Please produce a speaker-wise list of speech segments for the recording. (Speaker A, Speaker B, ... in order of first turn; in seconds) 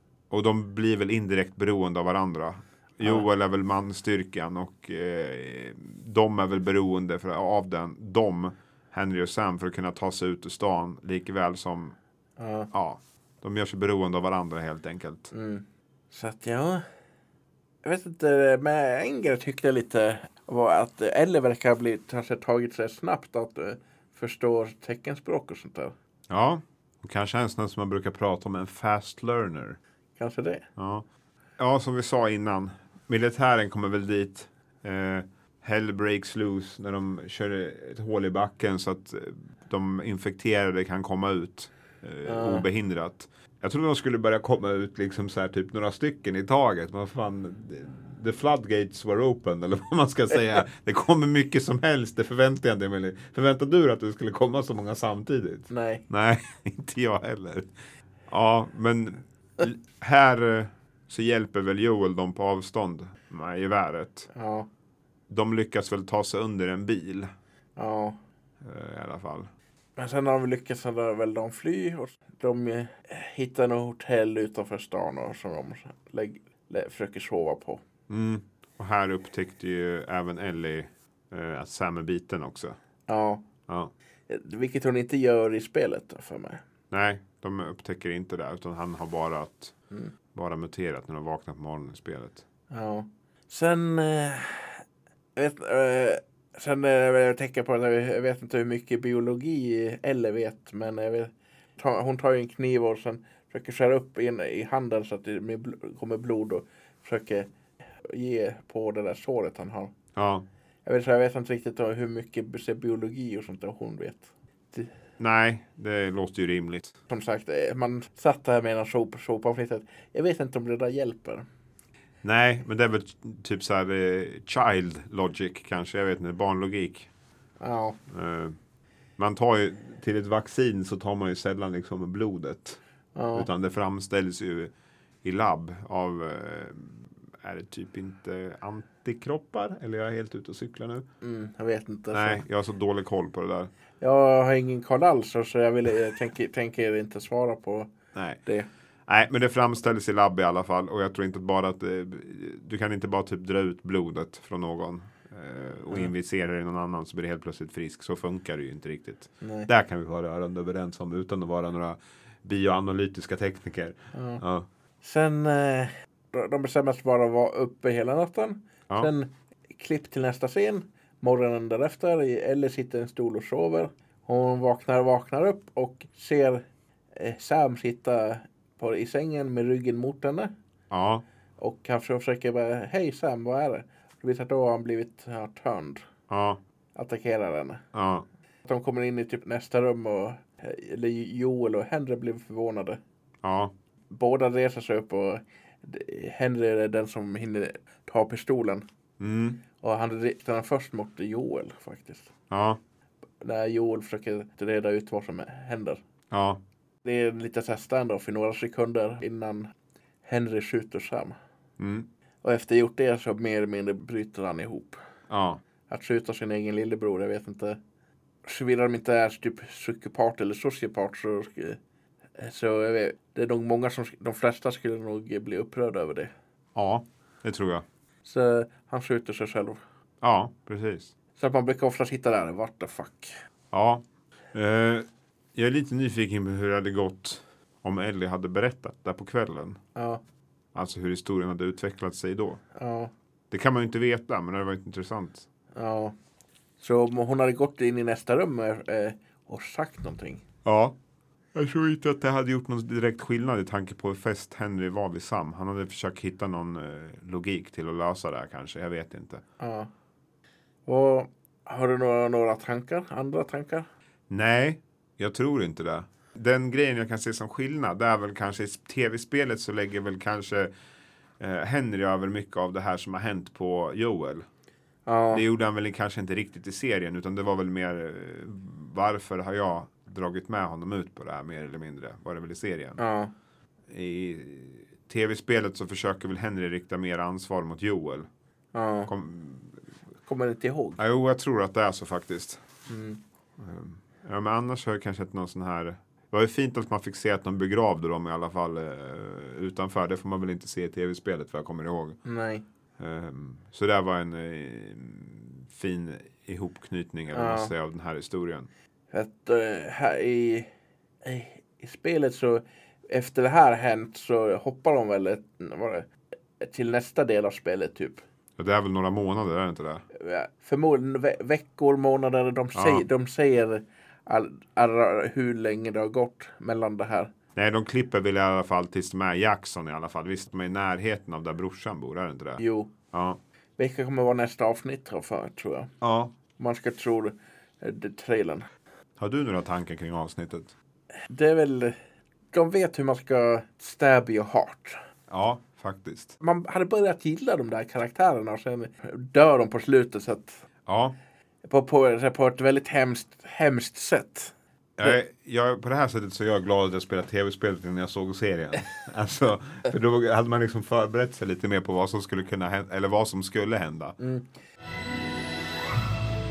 Speaker A: 0.3-12.0, 12.7-15.3, 26.3-29.8, 30.8-31.1, 31.6-57.7, 58.3-64.3, 65.3-67.3, 68.6-69.5, 78.1-82.8, 83.7-83.9, 86.9-89.8, 90.3-92.4, 110.2-110.5, 115.2-117.0, 122.2-127.1, 128.1-128.6, 129.2-132.8, 133.3-134.7, 135.2-141.1, 142.1-143.7, 148.1-148.4, 149.1-164.7, 180.9-181.2, 186.3-186.6, 187.9-188.2, 193.4-193.7, 199.2-199.6, 202.5-202.8, 206.3-206.6, 211.8-212.1, 215.3-215.6, 226.8-227.8, 230.2-231.1, 233.7-239.8, 240.7-242.6, 243.5-245.5, 250.7-250.9, 251.6-259.4, 264.3-270.7, 271.4-274.4, 275.3-283.0, 283.9-288.3, 289.1-289.9, 291.0-292.6, 293.6-302.2, 303.0-308.7, 318.6-320.0, 322.7-323.0, 327.6-333.4, 336.0-336.4, 339.2-340.7, 345.3-346.4, 350.9-351.2, 355.0-364.2
Speaker B: 12.4-12.7, 15.3-16.9, 17.8-25.9, 30.2-30.6, 42.3-42.7, 55.7-56.0, 64.3-64.7, 67.8-68.2, 70.0-77.8, 83.1-83.4, 84.3-86.6, 92.7-94.8, 95.4-107.5, 108.0-109.9, 110.8-114.9, 117.1-121.5, 127.6-128.0, 133.2-133.5, 141.2-142.4, 144.0-147.9, 159.4-159.7, 164.1-164.4, 165.0-176.6, 177.2-180.5, 181.6-186.1, 186.9-187.8, 188.7-193.0, 194.1-198.8, 199.8-202.3, 203.4-206.0, 207.1-209.7, 210.2-211.4, 212.4-215.0, 215.9-217.8, 218.5-221.8, 222.4-226.3, 228.2-229.8, 231.4-233.3, 240.0-240.2, 242.8-243.1, 245.8-246.2, 246.8-250.4, 259.6-259.9, 260.9-263.9, 275.1-275.4, 283.0-283.3, 288.7-289.1, 290.3-291.0, 292.9-293.2, 302.2-302.6, 307.3-307.7, 309.1-310.7, 311.2-316.1, 316.6-318.2, 320.1-327.3, 332.6-332.9, 333.8-335.9, 336.6-338.7, 341.3-342.0, 342.5-345.0, 346.4-350.6, 351.7-355.2, 364.2-364.5